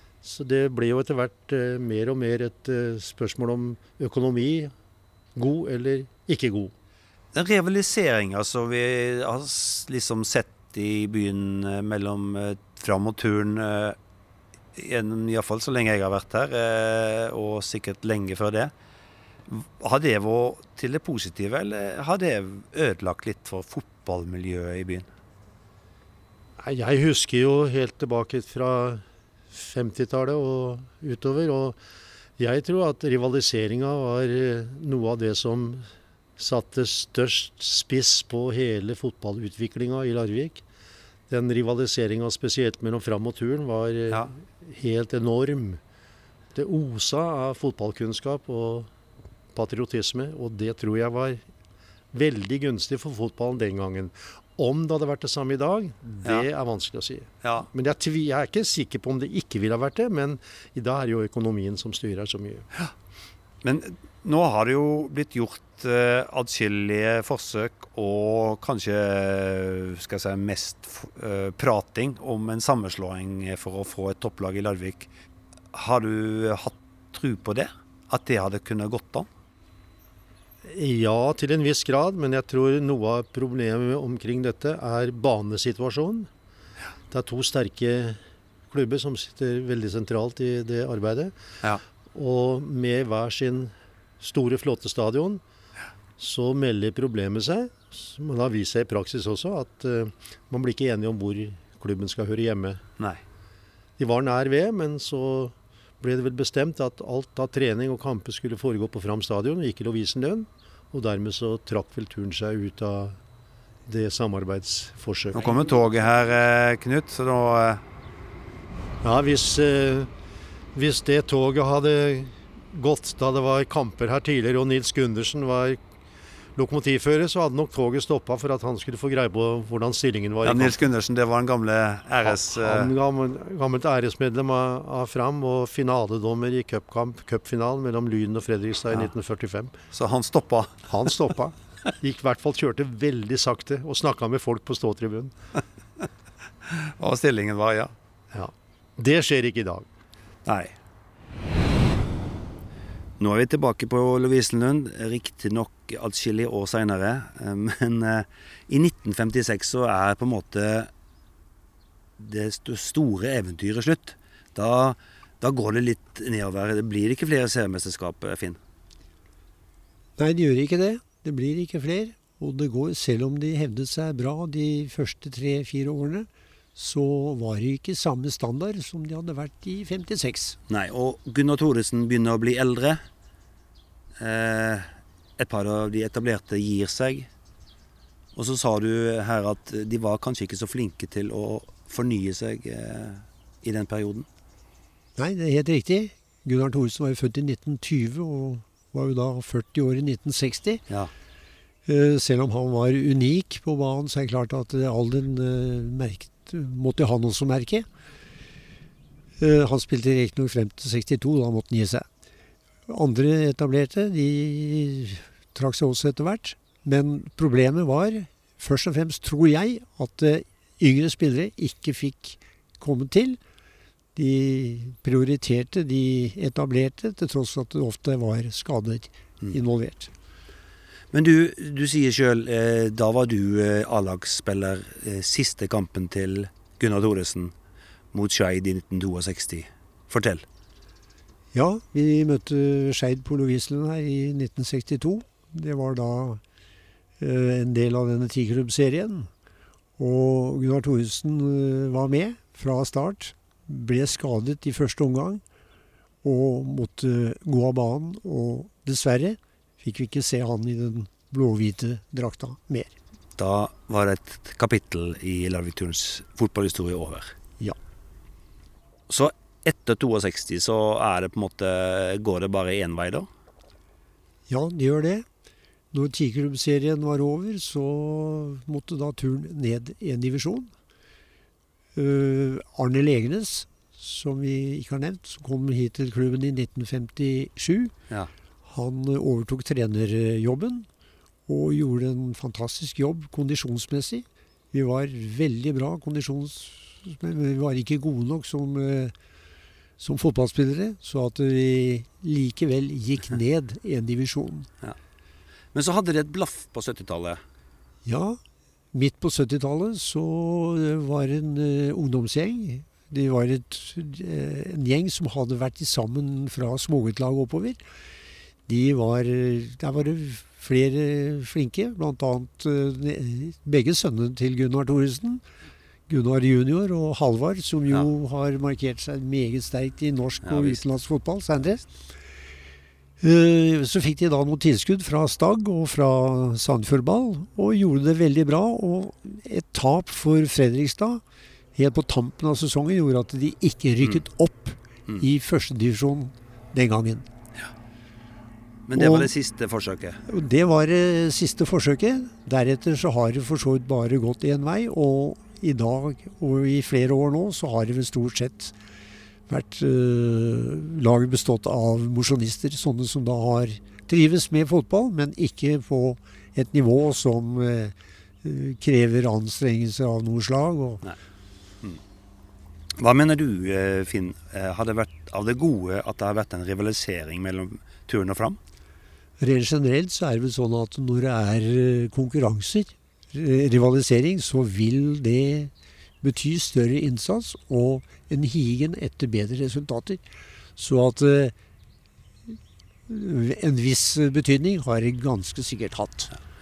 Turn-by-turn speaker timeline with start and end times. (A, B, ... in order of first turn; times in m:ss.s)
0:00.2-0:04.7 A
0:05.4-0:06.7 A
0:07.3-0:14.0 B
0:14.8-0:18.7 B
0:19.5-0:25.1 B
0:26.6-0:31.8 A
0:32.4-0:35.9 A
0:36.4-0:40.6 A
0:41.3-0:45.8 A
0:46.6-0:48.9 A
0:49.5-0:51.4 A
0:52.1-1:02.7 A
1:03.6-1:15.1 B
1:15.7-1:19.3 B
1:20.7-1:26.3 A
1:27.1-1:31.3 A
1:32.1-1:35.4 A
1:36.2-1:42.8 A
1:44.0-1:53.2 A
1:53.9-1:55.4 A
1:55.3-1:57.8 B
1:59.0-2:00.1 A
2:00.7-2:05.8 A
2:06.6-2:10.8 A
2:10.4-2:12.9 B
2:12.2-2:19.7 A
2:19.9-2:20.9 B
2:20.9-2:25.4 A
2:26.7-2:27.9 B
2:28.3-2:29.9 A
2:30.4-2:30.8 B
2:33.2-2:40.9 B
2:42.2-2:48.6 B
2:50.2-3:00.6 C
3:00.7-3:03.0 B
3:04.2-3:07.3 B
3:08.4-3:14.3 B
3:15.2-3:20.8 C
3:21.9-3:27.9 C
3:29.4-3:32.1 C
3:32.9-3:43.4 C
3:44.2-3:50.1 C
3:51.1-3:57.6 B
3:58.1-4:00.5 B
4:01.5-4:06.4 C
4:07.2-4:09.3 C
4:10.0-4:15.4 C
4:16.2-4:23.0 C
4:23.4-4:27.4 B
4:29.1-4:33.3 B
4:34.5-4:35.3 C
4:35.9-4:40.7 C
4:42.0-4:47.9 C
4:48.7-4:50.9 C
4:51.5-4:59.2 C
5:00.0-5:04.7 C
5:05.7-5:07.4 B
5:08.0-5:08.4 C
5:08.9-5:17.8 C
5:18.7-5:25.4 C
5:26.1-5:32.0 C
5:30.4-5:30.9 B
5:33.2-5:41.2 C
5:41.8-5:47.3 C
5:48.9-5:50.2 B
5:49.0-5:49.3 C
5:50.3-5:58.8 C
5:59.5-6:11.0 C
6:13.0-6:18.6 B
6:19.4-6:30.2 C
6:30.8-6:31.6 C
6:33.1-6:36.3 C